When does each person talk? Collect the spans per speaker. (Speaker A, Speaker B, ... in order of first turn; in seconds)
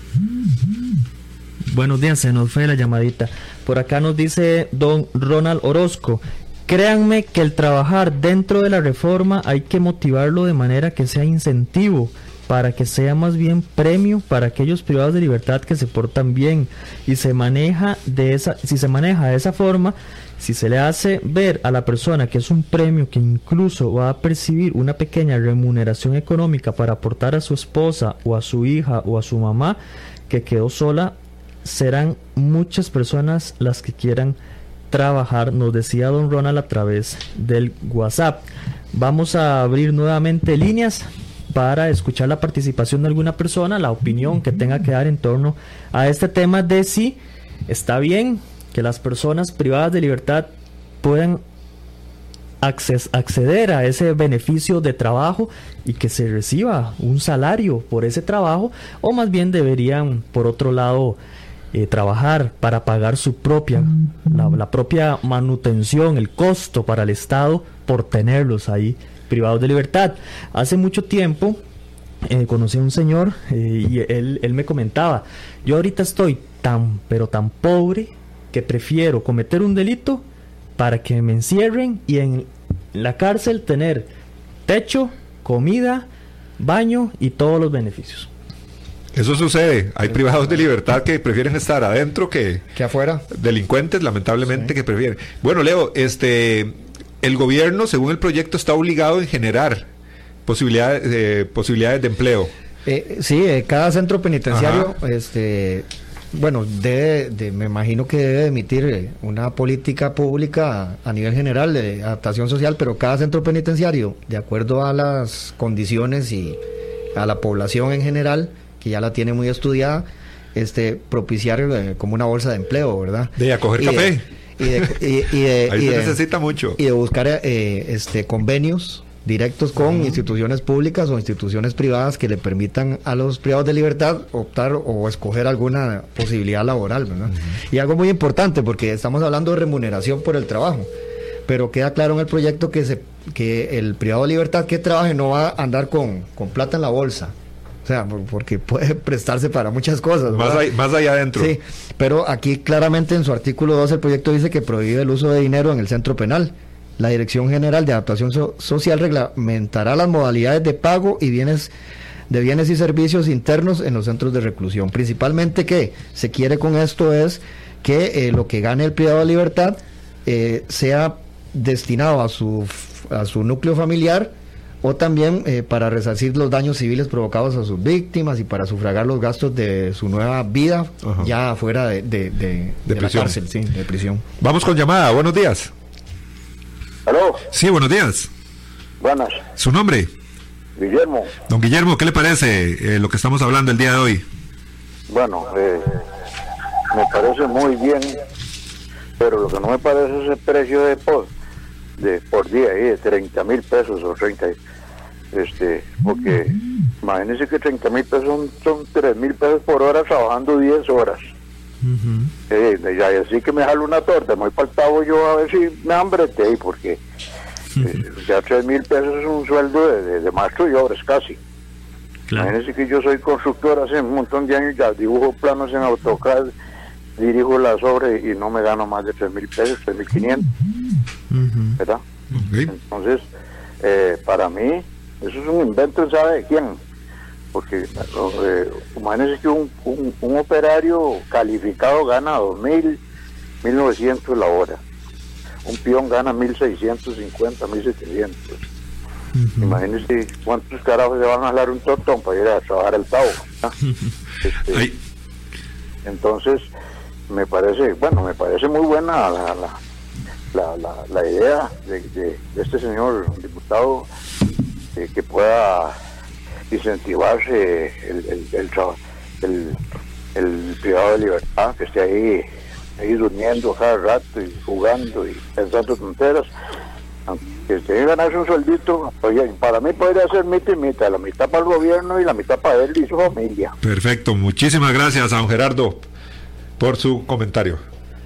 Speaker A: 1.7-29.8, 30.3-34.4, 34.9-50.5, 51.0-51.4, 52.6-61.2, 61.7-71.6, 72.2-80.2, 80.8-84.1, 84.7-86.1, 86.6-88.3, 211.8-212.3, 222.3-222.5, 231.3-231.8, 249.3-249.8
Speaker B: 89.1-92.6, 93.3-99.8, 100.5-102.5, 104.5-104.9, 123.4-124.9, 125.7-126.8, 150.3-151.6, 182.9-183.4, 184.4-185.7, 187.5-188.3, 189.6-190.1, 191.5-194.2, 232.3-232.7, 283.8-286.0, 286.8-287.8
Speaker C: 90.1-90.5, 92.7-93.2, 94.5-94.7, 102.8-116.6, 117.1-126.2, 126.8-140.9, 141.4-147.3, 147.8-150.7, 151.3-161.7, 162.3-184.2
Speaker D: 187.1-187.4, 189.0-189.4, 190.8-191.3, 195.1-196.0, 196.9-198.2, 199.2-201.3, 202.0-204.6, 205.3-211.2, 212.5-217.0, 217.8-221.4, 222.3-226.5, 227.2-230.5, 232.7-233.2, 233.8-236.8, 237.5-243.0, 243.6-244.8, 245.6-248.6, 249.6-253.7, 254.4-254.8, 256.0-256.7, 257.3-259.8, 260.5-264.1, 264.9-265.9, 266.7-269.8, 270.3-272.4, 273.0-276.5, 277.3-283.7